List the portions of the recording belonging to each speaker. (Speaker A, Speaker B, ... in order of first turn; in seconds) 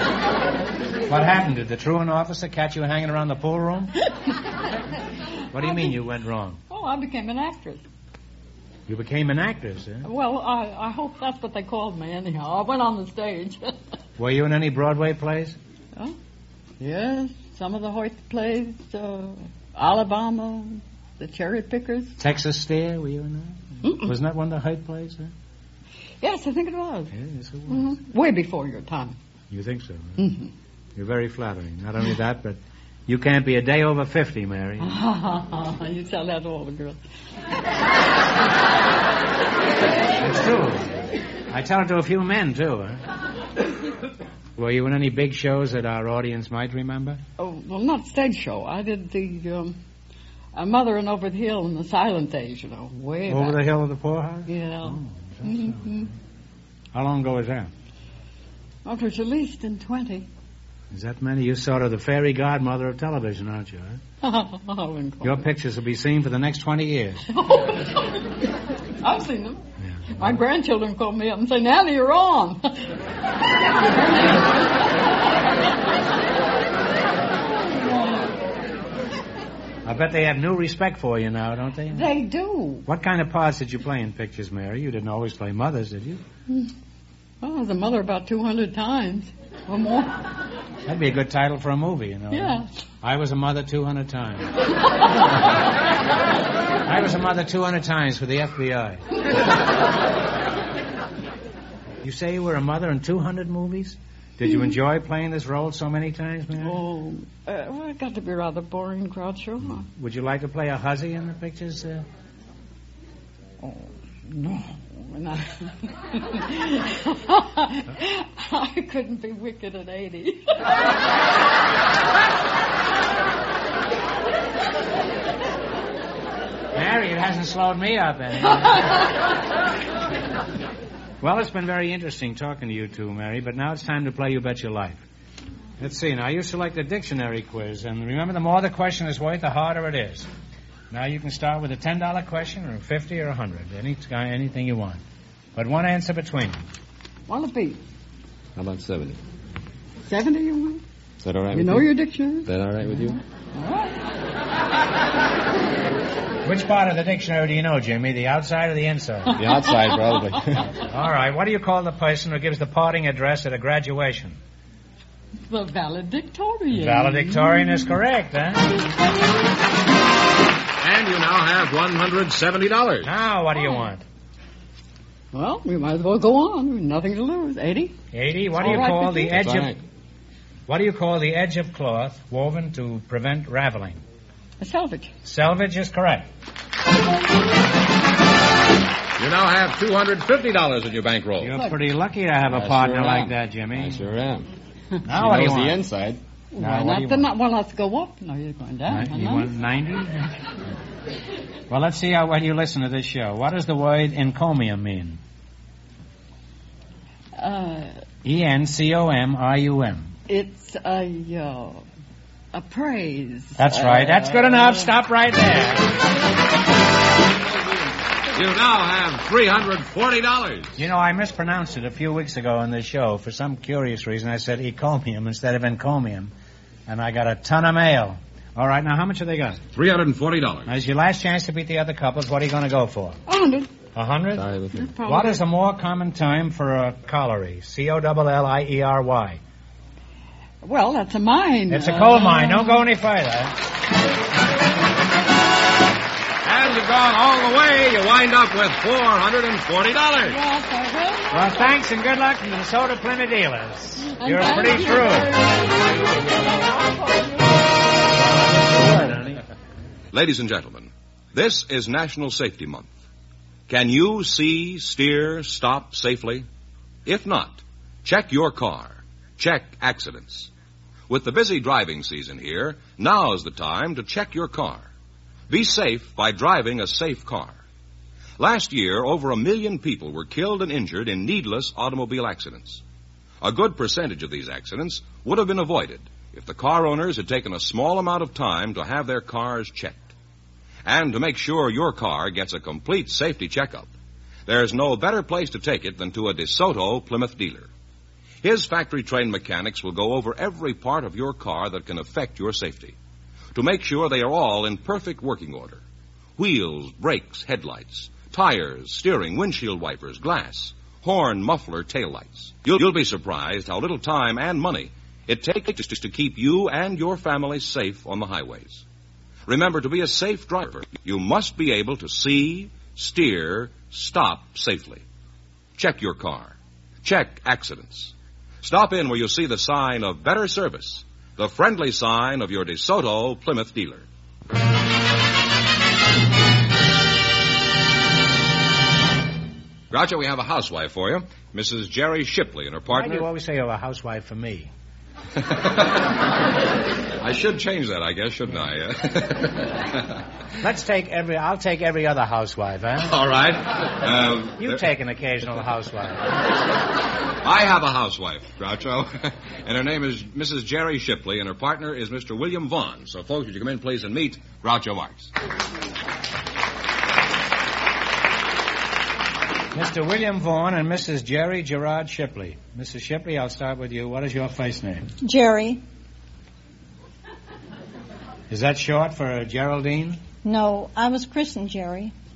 Speaker A: 1.1-4.0, 5.5-6.6, 8.9-10.1, 14.2-15.6, 22.2-25.3, 27.1-27.9, 29.5-30.3, 30.9-35.0, 40.2-43.0, 44.6-47.2, 53.3-55.9, 56.9-57.7, 60.9-64.0, 65.2-67.3, 69.8-70.3, 79.8-82.1, 82.8-86.2, 90.8-94.5, 96.8-99.0, 102.0-106.8, 109.9-112.0, 126.7-129.0, 131.2-135.0, 135.8-140.3, 140.9-145.0, 145.6-146.6, 156.4-159.4, 160.9-164.4, 166.7-168.7, 173.0-174.0, 178.1-179.7, 180.7-184.0, 185.2-186.3, 191.4-194.0, 195.0-195.8, 196.6-197.3, 198.9-200.3, 201.7-205.2, 208.2-210.1, 213.6-216.0, 220.8-226.3, 226.9-229.6, 230.7-233.2, 233.9-234.4, 235.0-239.4, 241.7-243.6, 251.3-255.4, 258.1-259.4, 342.9-344.7, 350.6-353.1, 354.6-356.2, 369.7-375.1, 378.5-380.2
Speaker B: 5.6-6.0, 6.7-7.8, 10.0-13.8, 16.8-22.1, 23.8-24.1, 26.2-27.1, 27.7-29.1, 30.2-30.5, 34.8-37.0, 47.4-49.7, 50.5-53.6, 54.5-56.1, 58.8-60.3, 64.2-65.4, 67.3-72.9, 73.8-74.8, 77.6-78.3, 81.9-82.8, 87.4-90.3, 92.3-92.7, 106.6-109.8, 113.6-120.8, 147.3-147.8, 150.1-150.8, 151.5-152.5, 153.5-154.0, 159.4-160.2, 165.5-167.9, 168.8-169.4, 175.3-178.0, 178.6-179.3, 184.6-185.1, 191.5-191.8, 196.5-199.5, 207.3-208.0, 210.3-211.8, 212.5-214.9, 233.3-233.7, 234.7-235.4, 240.6-242.8, 250.2-251.5, 254.0-259.1
Speaker C: 148.6-149.2, 151.2-151.9, 152.4-153.2, 159.3-160.7, 178.6-179.8, 192.5-194.5, 195.1-196.2, 234.3-234.9
Speaker D: 170.8-173.1, 189.2-191.6, 218.3-220.8, 229.7-230.8, 246.4-250.4, 260.1-262.9, 263.7-266.4, 267.0-270.5, 271.1-274.9, 275.5-277.6, 278.4-282.8, 283.4-290.1, 290.8-293.9, 294.4-297.7, 298.4-302.9, 303.5-305.8, 306.4-318.8, 319.4-325.0, 325.8-334.0, 339.9-343.3, 345.4-346.1, 347.2-350.1, 353.0-354.8, 357.4-365.3
Speaker E: 375.2-375.8, 380.4-382.1